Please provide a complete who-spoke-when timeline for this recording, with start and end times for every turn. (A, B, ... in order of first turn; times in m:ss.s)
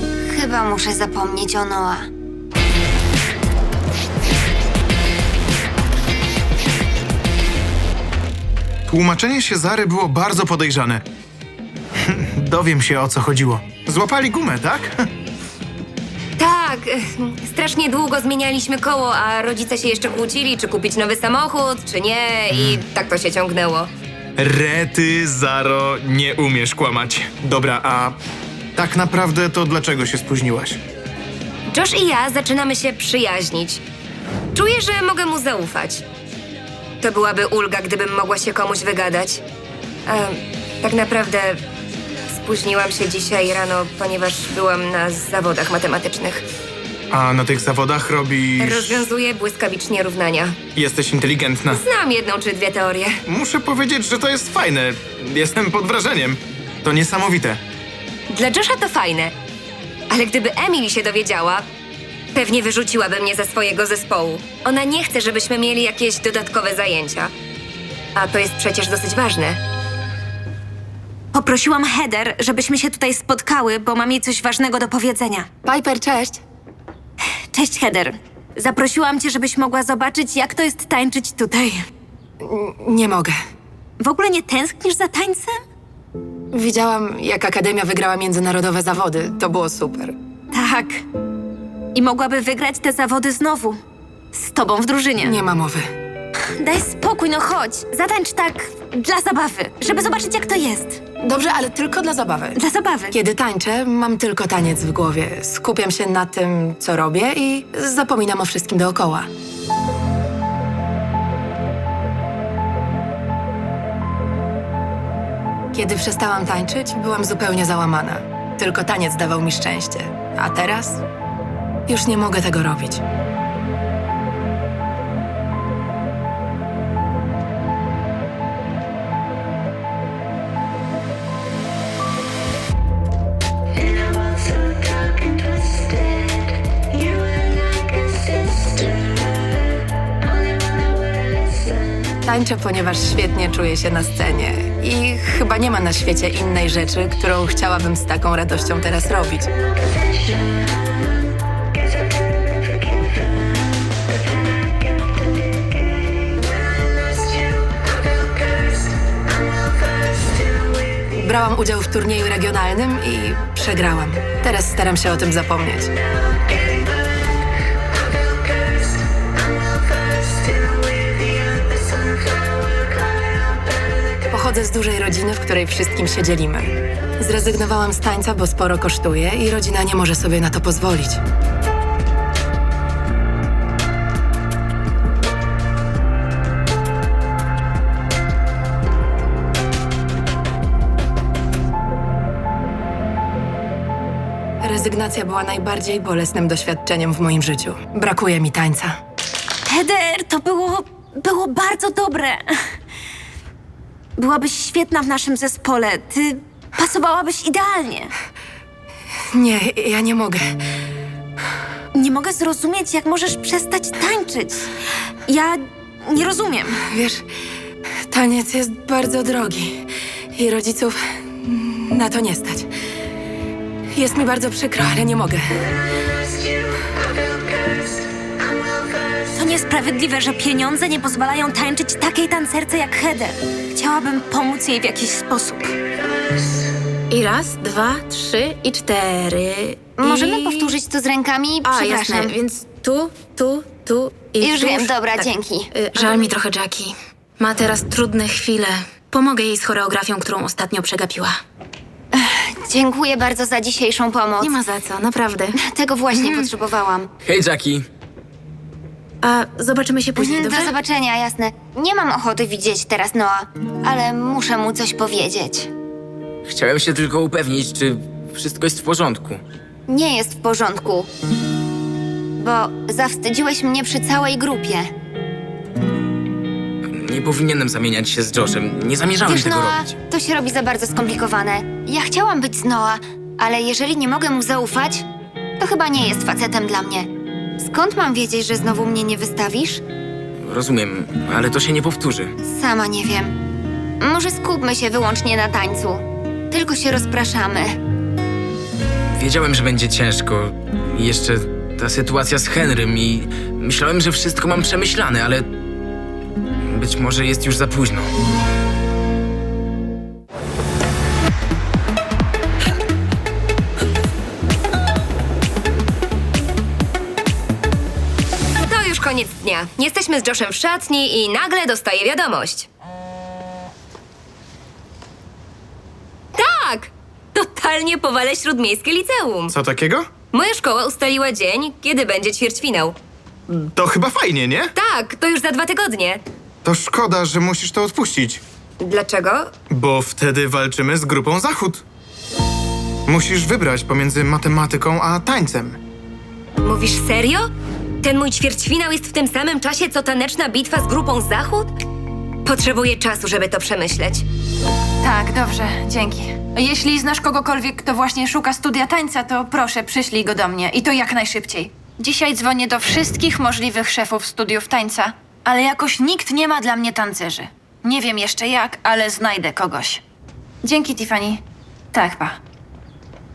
0:00.2-0:02.1 A
0:08.9-0:11.0 B
0:12.1-0:14.9 B
0:16.4-0:23.9 C
0:24.4-0:28.2 B
0:28.8-0:30.8 B
0:31.7-0:33.8 C
0:34.5-0:36.0 C
0:37.0-0:39.4 C
0:40.1-0:41.6 C
0:42.3-0:46.4 C
0:47.1-0:49.1 B
0:48.6-0:50.6 C
0:50.8-0:51.8 B
0:51.7-0:53.2 C
0:53.3-0:57.6 B
0:58.3-0:59.3 C
1:00.1-1:01.6 C
1:02.3-1:07.3 C
1:08.2-1:09.6 C
1:11.3-1:15.5 D
1:15.6-1:16.4 E
1:17.5-1:21.8 D
1:22.4-1:23.3 E
1:24.0-1:25.6 D
1:26.5-1:30.1 E
1:30.5-1:31.0 D
1:31.9-1:33.8 D
1:34.3-1:35.4 D
1:35.2-1:35.9 E
1:36.6-1:41.0 D
1:41.2-1:42.6 E
1:42.6-1:43.2 D
1:43.1-1:49.3 E
1:55.7-2:01.0 E
2:01.9-2:03.0 E
2:22.2-2:29.5 E
2:41.1-2:45.9 E
2:54.3-3:01.2 E
3:14.6-3:19.0 E
3:19.7-3:22.4 D
3:24.2-3:28.1 D
3:29.3-3:30.4 E
3:31.9-3:34.7 D
3:35.3-3:36.8 D
3:36.9-3:37.2 E
3:38.1-3:39.8 E
3:40.3-3:42.7 E
3:43.9-3:45.4 E
3:49.3-3:55.7 D
3:57.1-4:00.7 F
4:00.0-4:02.4 A
4:01.6-4:11.3 F
4:04.4-4:05.7 A
4:12.1-4:14.6 A
4:14.4-4:15.5 F
4:15.6-4:17.1 A
4:16.1-4:16.5 F
4:17.2-4:17.8 G
4:19.2-4:20.7 F
4:20.2-4:25.7 A
4:26.5-4:29.4 G
4:29.9-4:31.1 A
4:32.4-4:34.9 A
4:37.0-4:39.9 G
4:39.2-4:45.0 A
4:45.6-4:49.8 A
4:50.4-4:52.3 G
4:52.4-4:53.4 A
4:54.0-4:57.8 A
4:59.1-5:05.5 G
5:06.7-5:08.1 G
5:18.6-5:22.7 C
5:26.4-5:29.5 C
5:29.5-5:30.1 B
5:30.3-5:33.0 C
5:33.5-5:34.7 B
5:34.8-5:36.2 C
5:36.6-5:38.4 B
5:38.8-5:39.5 C
5:39.7-5:41.8 B
5:43.1-5:45.8 B
5:46.6-5:47.5 C
5:48.0-5:51.7 C
5:52.4-5:54.2 C
5:55.0-6:10.0 H
6:10.6-6:11.4 H
6:11.9-6:12.4 H